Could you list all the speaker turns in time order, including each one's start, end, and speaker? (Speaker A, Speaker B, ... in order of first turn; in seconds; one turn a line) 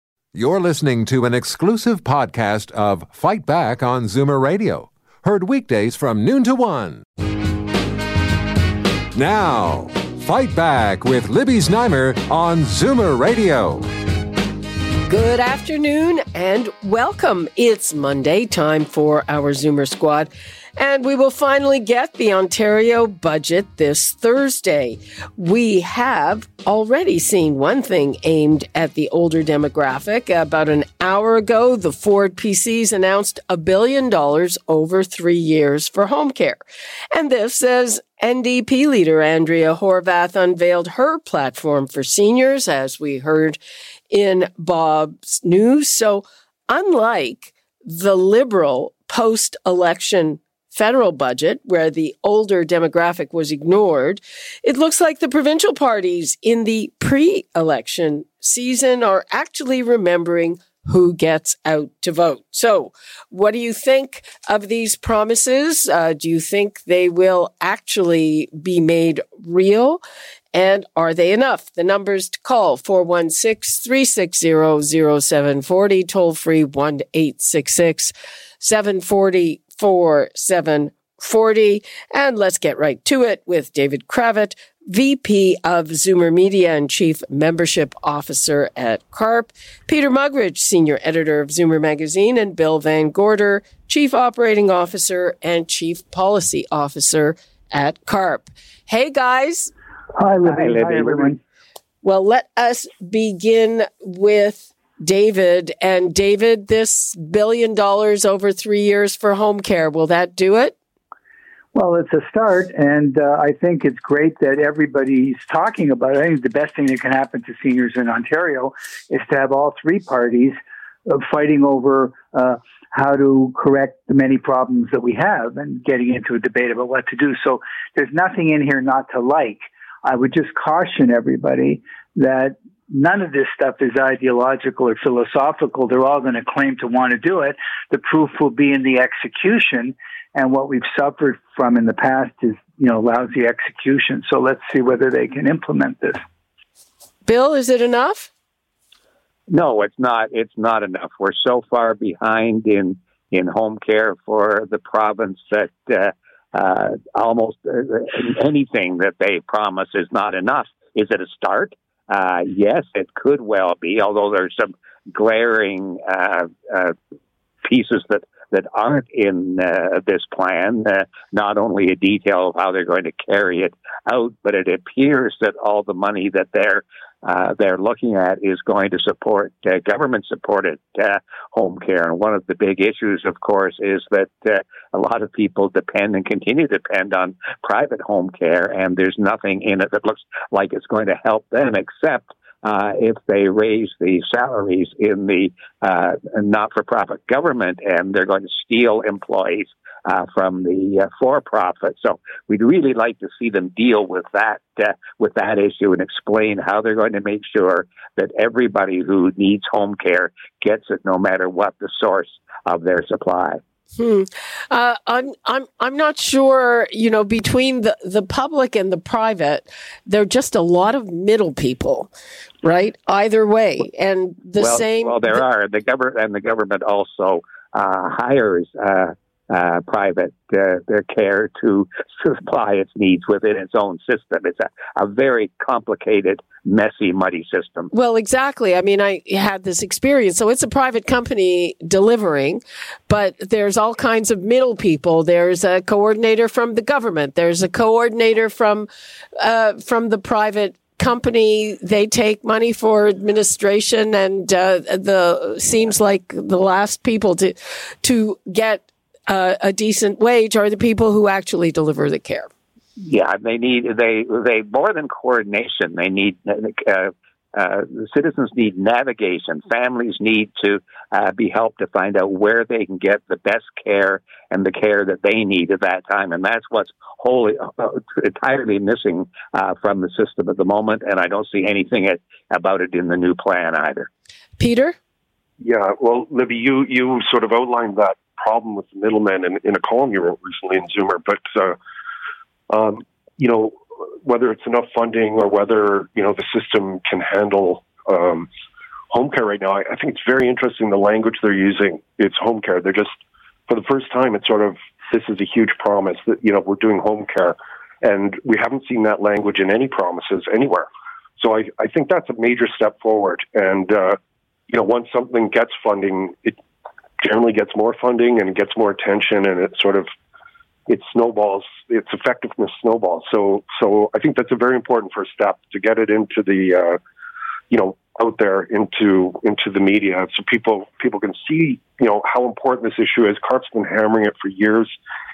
Speaker A: 0.3-7.0
Speaker A: 9.1-13.9
Speaker B: 15.1-43.6
Speaker B: 44.1-70.0
Speaker B: 70.5-99.7
Speaker C: 100.2-101.4
Speaker D: 100.4-101.3
Speaker B: 102.0-110.8
Speaker C: 111.7-146.2
Speaker B: 147.2-148.3
Speaker D: 149.5-167.0
Speaker D: 167.6-213.6
Speaker B: 214.0-222.1
Speaker B: 222.6-225.4
Speaker D: 224.6-237.9
Speaker B: 237.9-262.5
Speaker D: 263.0-284.1
Speaker B: 284.6-284.9
Speaker E: 285.6-291.8
Speaker E: 292.7-298.5
Speaker E: 299.1-316.6
Speaker E: 317.2-320.1
Speaker E: 320.9-327.0
Speaker E: 327.7-334.9